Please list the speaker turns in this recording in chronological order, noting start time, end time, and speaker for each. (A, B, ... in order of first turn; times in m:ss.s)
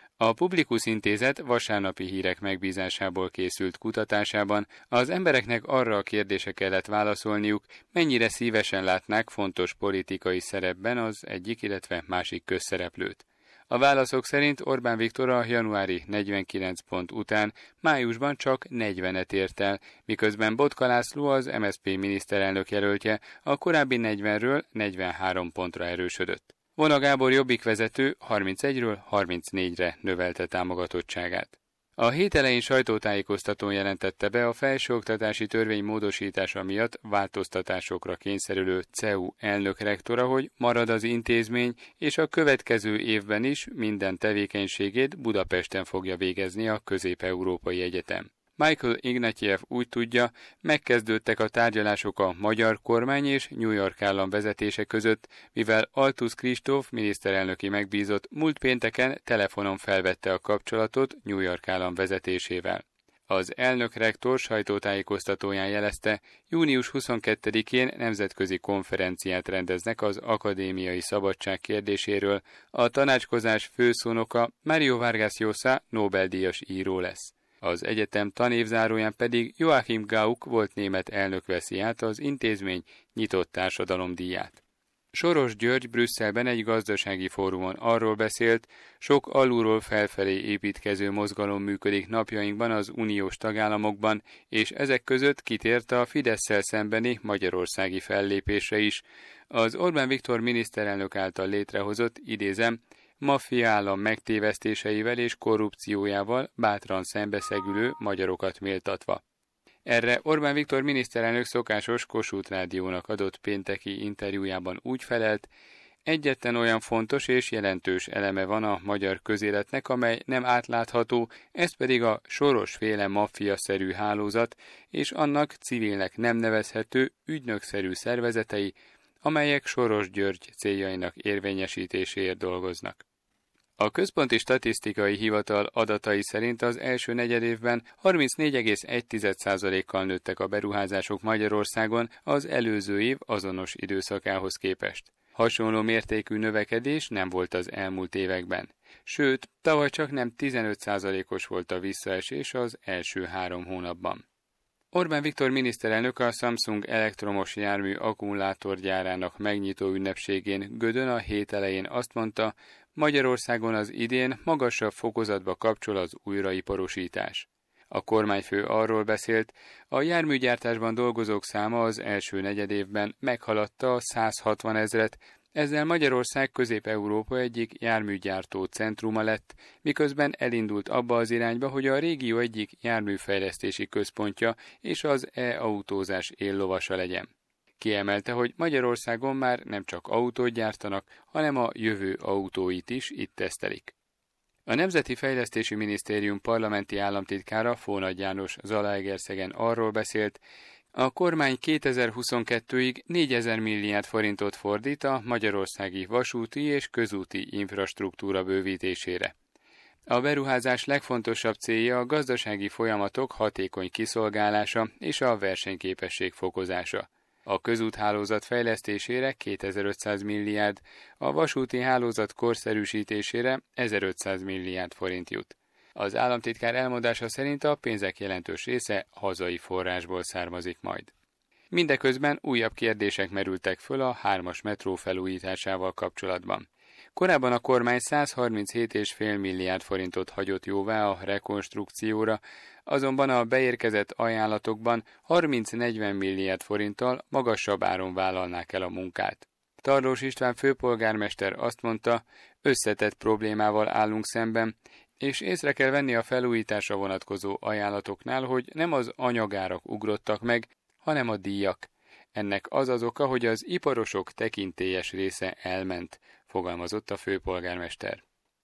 0:00.2-1:24.6 A
1:25.1-1:49.2 A
1:49.8-1:55.5 A
1:56.0-2:13.0 A
2:13.8-2:34.2 A
2:34.9-3:13.9 A
3:14.7-3:20.4 A
3:20.9-3:29.3 A
3:30.1-3:51.1 A
3:51.7-4:28.2 A